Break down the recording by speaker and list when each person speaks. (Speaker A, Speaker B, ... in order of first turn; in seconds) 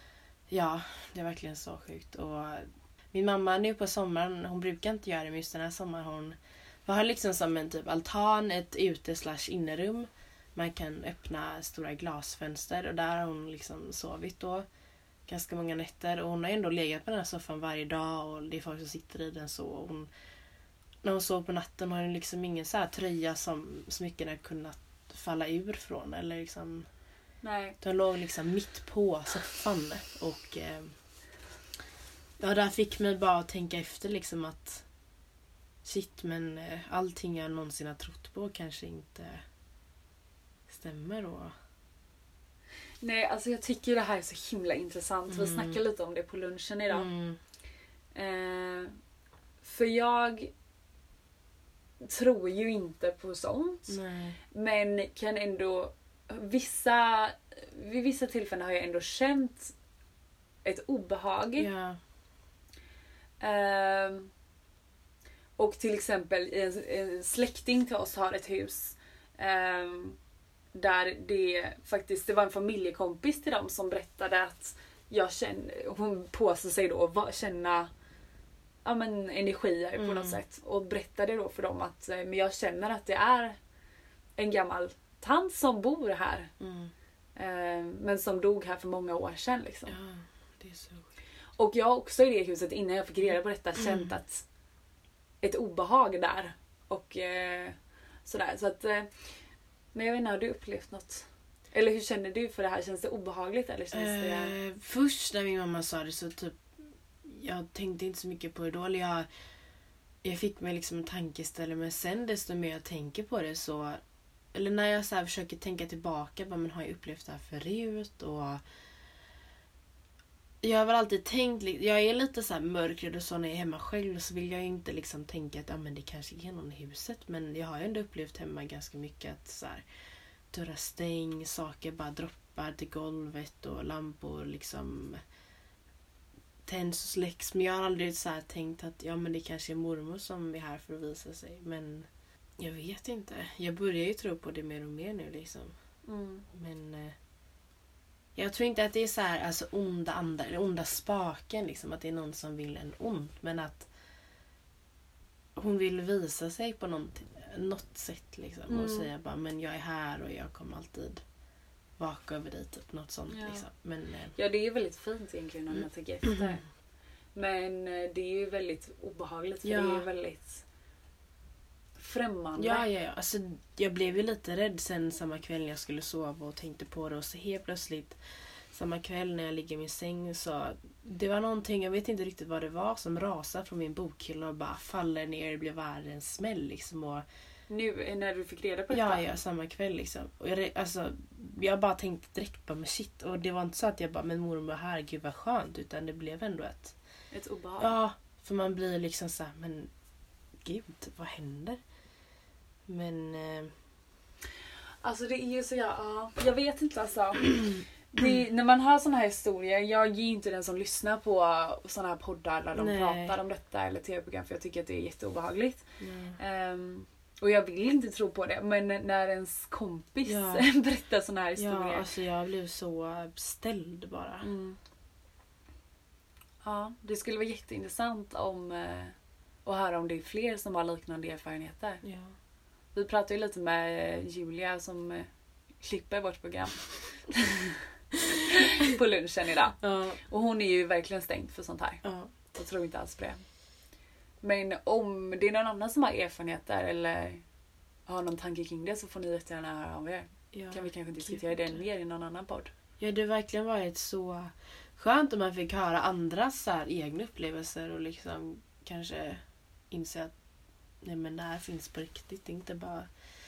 Speaker A: 0.5-14.6, 15.3-20.1, 21.0-26.9, 27.8-30.9, 32.4-34.8, 35.8-39.4, 40.7-41.5, 45.3-45.8, 46.9-47.4, 53.9-54.4, 61.6-62.0, 80.0-80.4, 86.6-86.9, 89.9-91.1, 93.8-94.1, 103.9-106.6, 107.2-109.2, 110.2-114.0, 114.5-118.6, 120.6-129.8, 130.5-135.2, 136.7-142.1, 142.6-145.7, 146.5-147.1, 148.3-153.9, 155.6-161.2, 162.0-164.3, 169.6-170.1, 172.6-178.2, 178.7-187.2, 188.9-196.9, 197.8-199.9, 200.6-201.8, 202.9-203.7, 212.8-213.3, 216.0-216.4, 220.2-220.7, 221.6-224.5, 232.0-232.3, 239.8-240.2, 242.0-242.3, 250.5-251.8, 253.0-260.3, 261.0-263.1
Speaker B: 27.4-27.8, 43.0-47.1, 48.1-48.9, 49.6-50.5, 52.0-54.0, 54.5-59.7, 60.6-61.7, 63.4-64.3, 65.6-70.2, 70.7-77.9, 78.8-83.6, 84.4-86.5, 87.3-90.0, 91.6-94.4, 95.4-99.1, 99.9-104.5, 146.1-146.4, 158.7-159.1, 163.3-163.6, 164.3-166.6, 167.3-170.6, 172.0-172.8, 187.7-189.3, 197.3-198.0, 205.0-215.8, 216.4-222.1, 224.4-224.8, 226.6-232.0, 232.9-235.3, 235.8-237.8, 238.3-243.4, 244.4-247.4, 248.1-252.7